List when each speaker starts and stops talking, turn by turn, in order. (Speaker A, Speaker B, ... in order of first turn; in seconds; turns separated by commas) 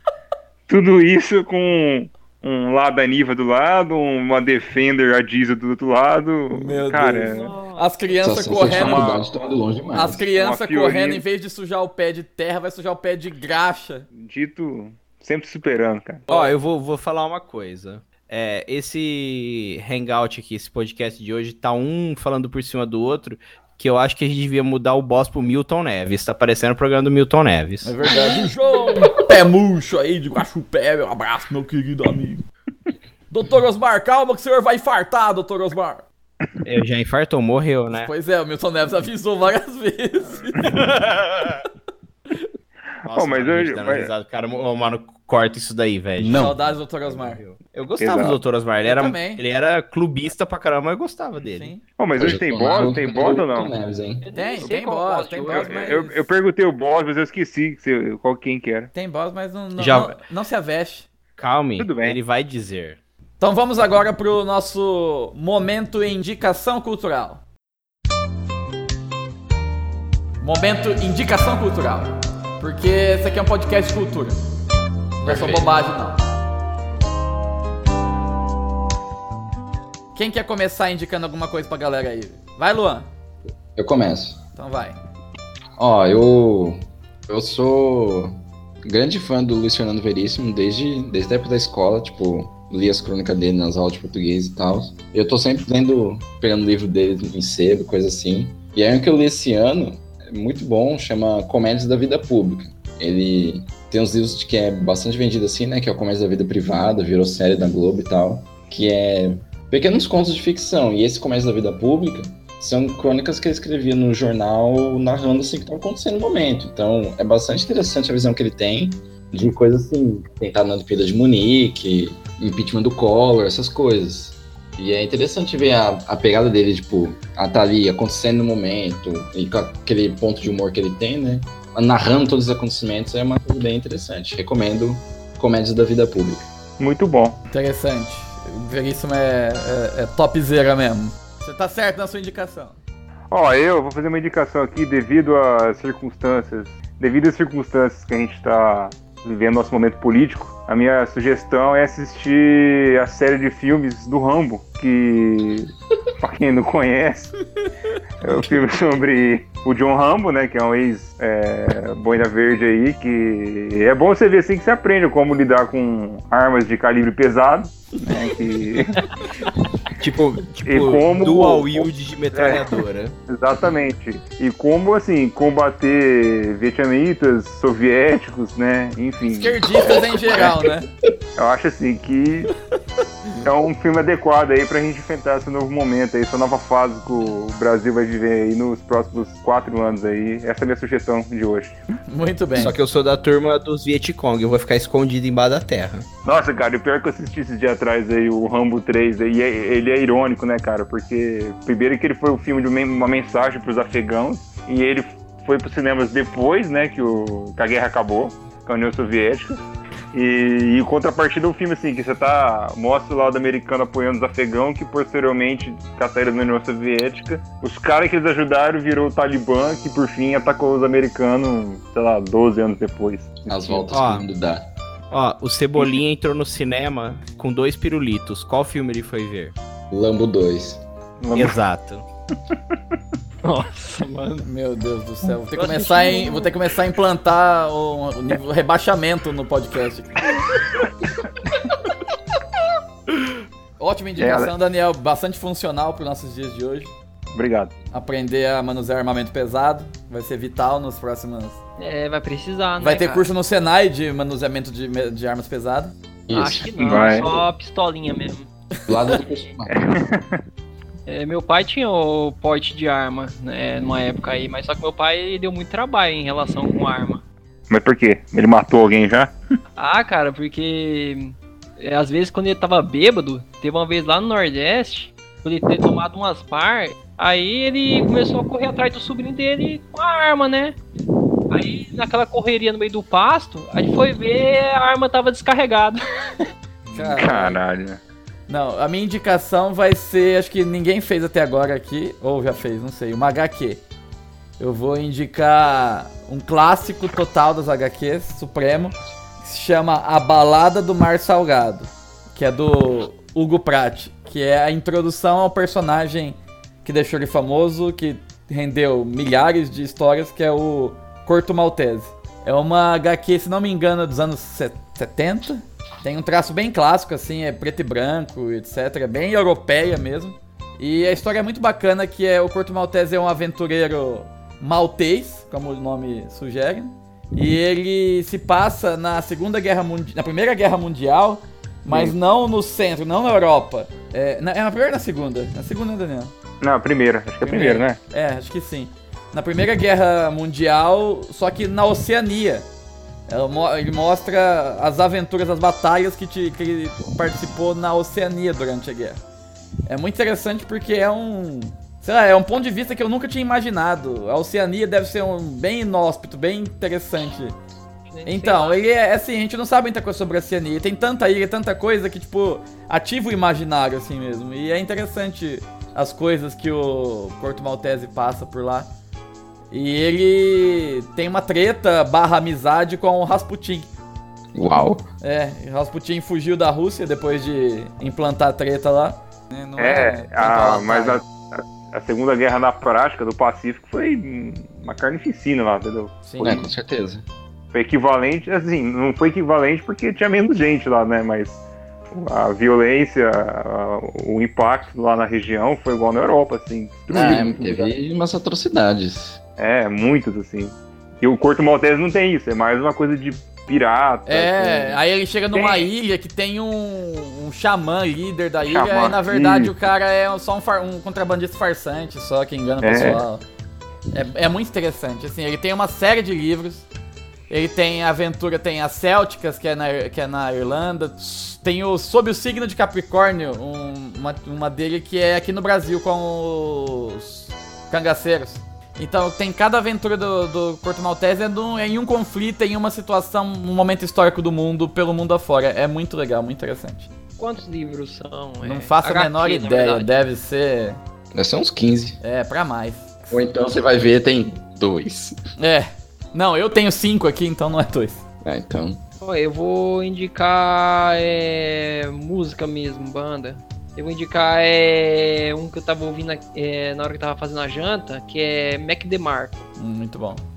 Speaker A: 0.7-7.5, Speaker B: 6.5-9.2, Speaker C: 7.3-8.1, Speaker D: 8.2-10.3, Speaker A: 8.6-9.5, Speaker B: 9.9-14.1, Speaker A: 10.3-11.2, Speaker A: 14.1-16.2, Speaker E: 16.3-28.0, Speaker B: 27.8-32.5, Speaker D: 28.1-29.1, Speaker B: 33.3-36.1, Speaker E: 36.6-38.1, Speaker B: 37.9-41.4, Speaker A: 43.1-44.1, Speaker E: 43.1-51.7, Speaker D: 46.2-46.5, Speaker B: 46.3-47.4, Speaker A: 48.0-48.4, Speaker B: 48.8-49.4, Speaker B: 51.5-51.8, Speaker A: 52.0-53.8, Speaker D: 52.2-54.3, Speaker C: 54.2-55.9, Speaker B: 54.3-56.2, Speaker A: 55.4-58.9, Speaker B: 59.0-61.1, Speaker E: 59.8-60.2, Speaker E: 61.4-63.0, Speaker A: 61.8-62.2, Speaker B: 63.4-67.4, Speaker B: 70.4-74.4, Speaker B: 75.2-76.2, Speaker E: 75.2-75.7, Speaker B: 80.1-83.1, Speaker D: 83.8-84.4, Speaker B: 84.6-85.0, Speaker D: 85.8-136.5, Speaker A: 136.8-137.4, Speaker B: 137.5-142.8, Speaker A: 143.3-157.3, Speaker A: 158.2-169.0, Speaker E: 170.0-173.2, Speaker A: 170.6-172.6, Speaker A: 173.3-180.0, Speaker B: 179.3-180.9, Speaker D: 179.8-180.7, Speaker A: 181.4-182.5, Speaker A: 183.4-191.8, Speaker B: 192.1-192.8, Speaker E: 192.6-196.1, Speaker A: 196.2-209.6, Speaker A: 210.1-223.8, Speaker D: 223.5-224.7, Speaker E: 223.9-224.3, Speaker E: 225.1-229.6, Speaker D: 229.9-230.8, Speaker A: 231.2-231.6, Speaker E: 231.3-232.1, Speaker C: 233.4-234.5, Speaker B: 234.4-240.4, Speaker C: 235.5-236.5, Speaker B: 243.8-246.9, Speaker A: 244.2-244.5, Speaker A: 247.3-247.7, Speaker B: 247.9-251.6, Speaker C: 251.8-253.3, Speaker B: 252.8-255.9, Speaker D: 256.3-257.1, Speaker C: 256.3-258.5, Speaker A: 256.8-257.3, Speaker D: 258.9-259.9, Speaker A: 259.7-260.4, Speaker C: 261.1-267.2, Speaker A: 267.7-269.4, Speaker C: 269.8-280.8, Speaker C: 281.5-286.0, Speaker B: 286.9-287.6, Speaker A: 286.9-288.0, Speaker B: 288.5-293.8, Speaker B: 294.6-336.3, Speaker A: 331.9-332.1, Speaker A: 336.6-338.0, Speaker B: 337.4-342.7, Speaker B: 343.3-349.2, Speaker B: 349.9-357.6, Speaker C: 358.1-358.8, Speaker B: 358.3-368.9, Speaker B: 369.7-373.9, Speaker D: 374.6-375.1, Speaker B: 375.2-381.2, Speaker A: 379.8-386.2, Speaker B: 386.3-386.6, Speaker D: 386.4-387.2, Speaker A: 387.7-397.9, Speaker D: 397.1-399.4, Speaker A: 399.6-405.0, Speaker B: 404.3-413.4, Speaker A: 405.5-405.9, Speaker A: 408.6-409.7, Speaker A: 412.8-413.2, Speaker B: 414.1-416.9, Speaker B: 417.5-437.1, Speaker C: 437.4-440.1, Speaker B: 438.6-441.0, Speaker D: 441.3-442.2, Speaker B: 442.2-443.1, Speaker D: 443.3-445.4, Speaker B: 445.6-448.2, Speaker D: 448.4-449.0, Speaker C: 449.2-459.7, Speaker B: 459.8-460.4